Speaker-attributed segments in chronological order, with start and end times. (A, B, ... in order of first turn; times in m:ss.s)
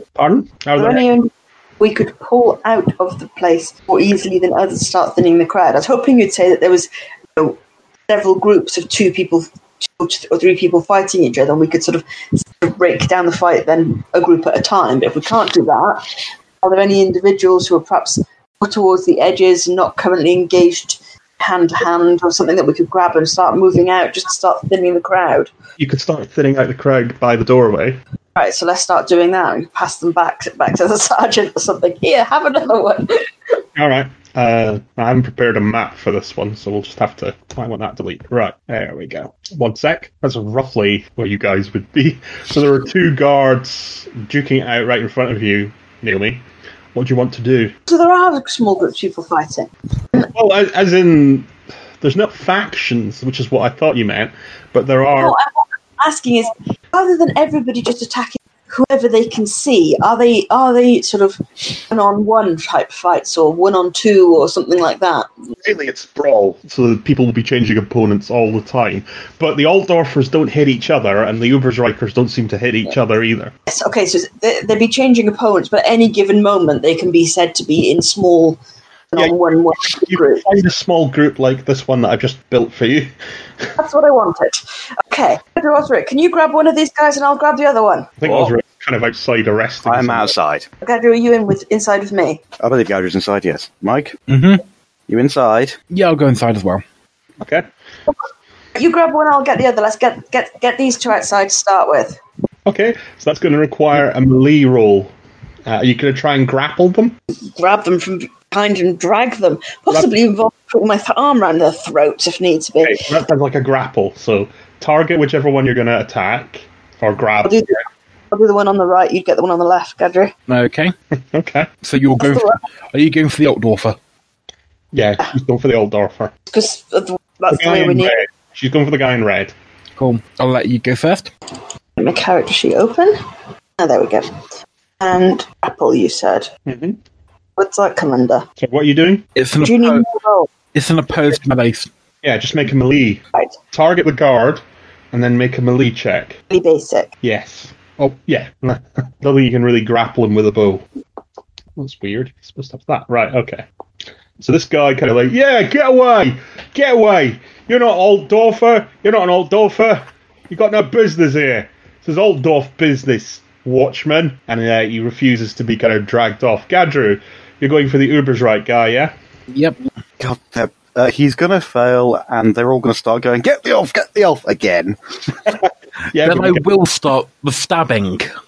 0:00.2-0:01.0 A
0:00.8-0:07.6 B
0:08.1-0:16.1 B
0:16.6-0:25.5 B
0:25.8-0:28.0 A
0:28.4-0:33.3 B
0:33.8-0:46.4 A
0:47.0-0:47.7 A
0:47.9-0:50.3 B
0:50.3-0:51.5 A
0:52.0-0:55.4 A
0:55.2-1:05.3 B
1:05.6-1:13.5 A
1:13.7-1:18.6 B
1:19.1-1:20.4 B
1:19.9-1:23.1 A
1:23.8-1:28.1 B
1:28.2-1:30.3 A
1:28.2-1:28.5 C
1:29.8-1:30.7 C
1:30.8-1:32.4 B
1:32.6-1:34.2 C
1:34.3-1:34.6 D
1:35.1-1:35.8 C
1:35.9-1:36.8 D
1:37.4-1:37.7 A
1:38.8-1:42.2 B
1:42.7-1:45.1 A
1:45.7-1:47.2 A
1:47.3-1:53.1 B
1:52.8-1:57.6 A
1:57.4-2:00.3 B
2:00.5-2:00.9 D
2:01.3-2:01.7 A
2:01.8-2:04.0 D
2:02.2-2:02.6 B
2:04.9-2:06.3 A
2:06.5-2:08.2 B
2:07.5-2:09.5 A
2:10.0-2:11.3 D
2:12.0-2:13.2 B
2:13.8-2:14.4 B
2:15.0-2:16.5 B
2:16.7-2:17.0 A
2:17.6-2:18.4 B
2:18.6-2:19.3 A
2:19.4-2:20.1 D
2:19.6-2:20.5 B
2:20.7-2:21.9 D
2:22.2-2:26.4 A
2:26.5-2:27.1 B
2:27.2-2:30.8 A
2:31.8-2:33.7 A
2:34.4-2:49.1 A
2:49.5-2:49.8 D
2:50.2-2:55.3 C
2:55.6-2:56.7 A
2:56.2-2:58.3 D